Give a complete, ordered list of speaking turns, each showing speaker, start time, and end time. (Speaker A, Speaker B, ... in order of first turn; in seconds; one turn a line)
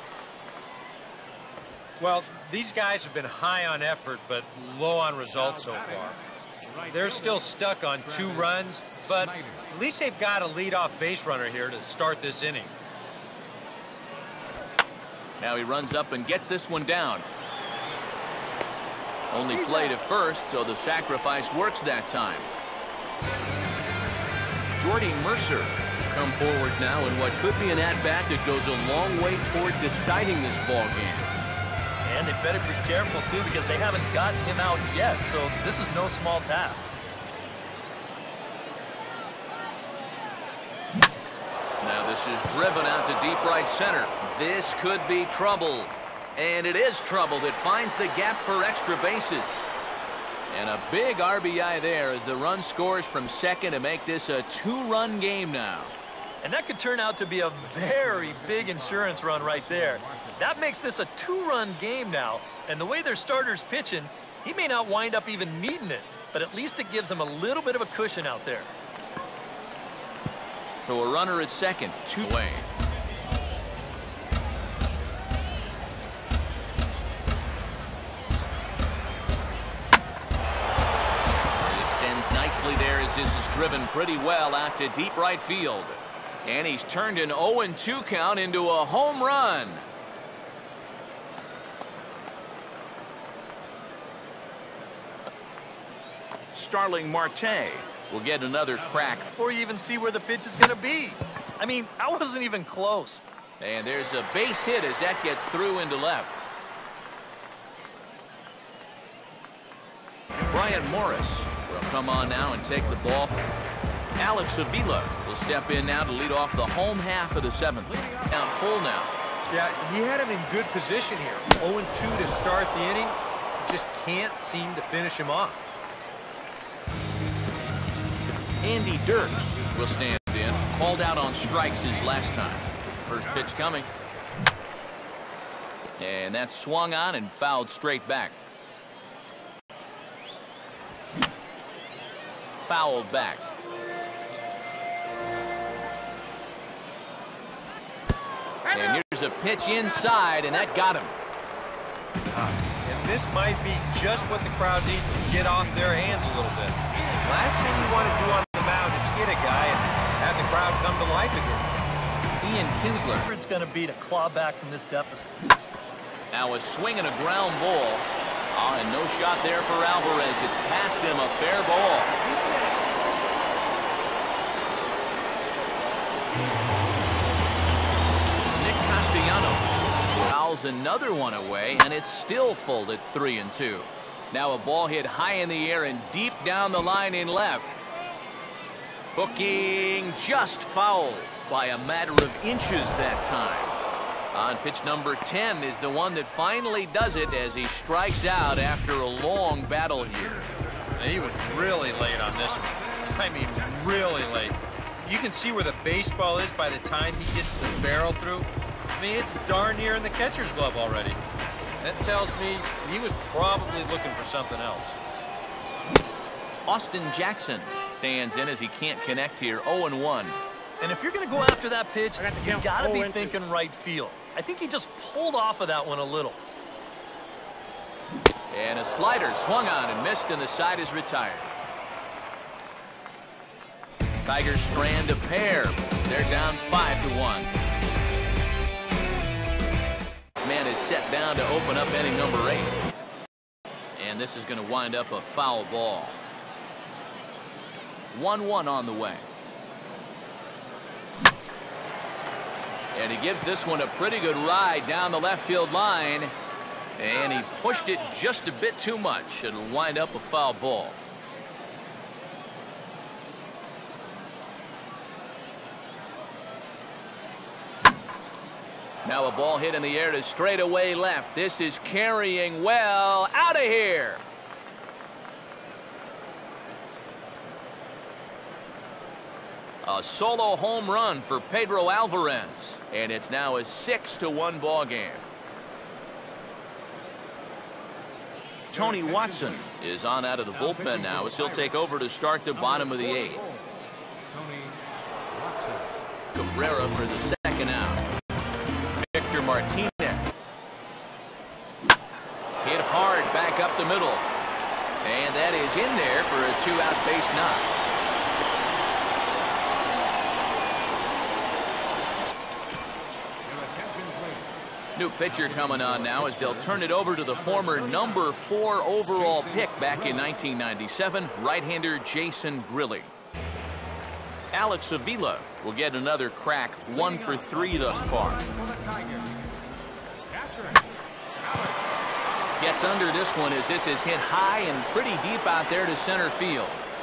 Speaker A: 2.0-6.2
Speaker A: 6.9-12.7
Speaker B: 15.4-17.2
Speaker B: 19.3-22.5
Speaker B: 24.7-31.3
Speaker C: 32.0-36.9
Speaker B: 41.8-49.7
Speaker B: 50.5-55.9
Speaker C: 56.4-68.7
Speaker B: 70.8-72.7
Speaker B: 81.6-89.8
Speaker B: 96.5-99.3
Speaker C: 99.2-103.2
Speaker B: 103.6-106.4
Speaker B: 110.5-113.3
Speaker B: 114.2-119.1
Speaker A: 119.5-125.6
Speaker B: 128.6-133.9
Speaker B: 136.0-138.3
Speaker B: 142.6-143.4
Speaker B: 148.7-151.1
Speaker A: 152.3-161.8
Speaker B: 162.4-163.2
Speaker C: 163.1-165.3
Speaker B: 166.3-172.2
Speaker B: 178.5-187.7
Speaker B: 189.1-193.8
Speaker B: 194.3-200.5
Speaker A: 201.0-211.2
Speaker A: 211.8-215.0
Speaker B: 216.7-220.4
Speaker C: 220.8-226.4
Speaker B: 228.5-231.5
Speaker B: 234.2-237.5
Speaker B: 240.4-242.8
Speaker B: 243.9-246.2
Speaker B: 248.1-249.2
Speaker B: 252.9-256.3
Speaker B: 257.0-261.0
Speaker B: 269.0-274.2
Speaker B: 279.8-285.2
Speaker B: 288.7-293.5
Speaker B: 296.3-298.0
Speaker B: 299.0-300.2
Speaker B: 302.6-304.3
Speaker B: 305.0-307.7
Speaker B: 314.9-323.1
Speaker B: 324.5-328.4
Speaker B: 332.6-336.8